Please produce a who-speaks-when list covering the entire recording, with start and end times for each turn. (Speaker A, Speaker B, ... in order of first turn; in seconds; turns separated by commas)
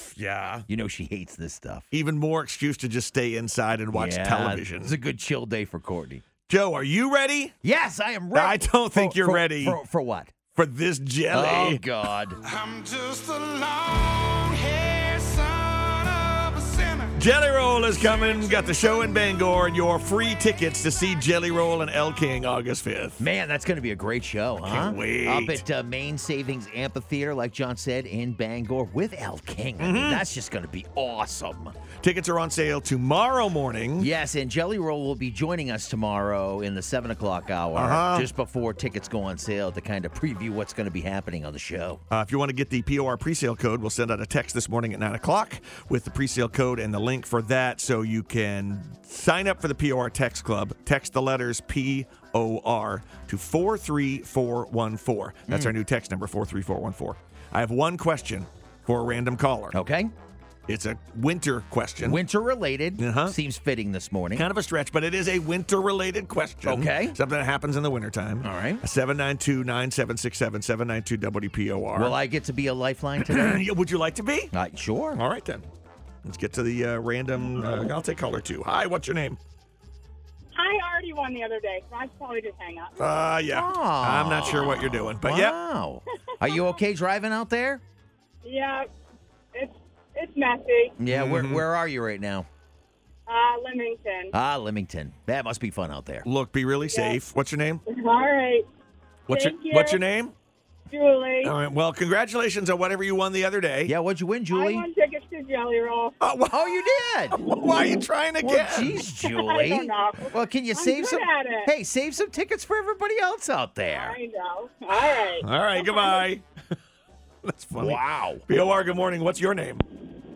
Speaker A: 0.1-0.7, Speaker B: 0.7-1.9, Speaker A: 1.9-5.0, Speaker B: 3.9-6.2, Speaker A: 6.5-7.5, Speaker B: 7.6-10.3, Speaker A: 8.3-9.8, Speaker A: 10.5-11.8, Speaker B: 11.3-12.4, Speaker C: 12.5-17.1, Speaker A: 17.1-23.2, Speaker B: 23.2-31.8, Speaker A: 24.6-25.6, Speaker A: 29.8-30.3, Speaker A: 32.0-34.1, Speaker B: 34.0-42.0, Speaker A: 37.8-38.3, Speaker A: 42.1-59.8, Speaker B: 55.5-55.7, Speaker B: 59.7-60.1, Speaker A: 60.7-62.2, Speaker B: 62.0-64.5, Speaker A: 63.0-63.4, Speaker A: 64.3-72.2, Speaker B: 66.7-67.2, Speaker B: 68.4-68.8, Speaker B: 72.0-73.7, Speaker A: 73.2-74.5, Speaker B: 74.5-75.2, Speaker A: 75.1-75.7, Speaker A: 76.2-79.4, Speaker D: 80.5-83.2, Speaker A: 83.0-85.6, Speaker B: 83.5-87.8, Speaker D: 88.4-88.9, Speaker D: 89.5-91.0, Speaker B: 91.0-92.5, Speaker A: 91.1-91.7, Speaker D: 93.3-94.3, Speaker B: 94.3-96.3, Speaker A: 96.2-97.8, Speaker D: 96.9-97.2, Speaker D: 97.9-98.7, Speaker A: 99.3-100.3, Speaker D: 99.3-100.0, Speaker D: 100.9-101.5, Speaker A: 101.4-103.9, Speaker B: 103.9-104.9, Speaker D: 104.5-106.2, Speaker A: 106.2-109.0, Speaker B: 106.5-107.4, Speaker B: 108.4-114.2, Speaker D: 109.2-111.7, Speaker D: 113.9-116.2, Speaker A: 115.3-116.5, Speaker A: 117.5-119.8, Speaker B: 117.8-118.5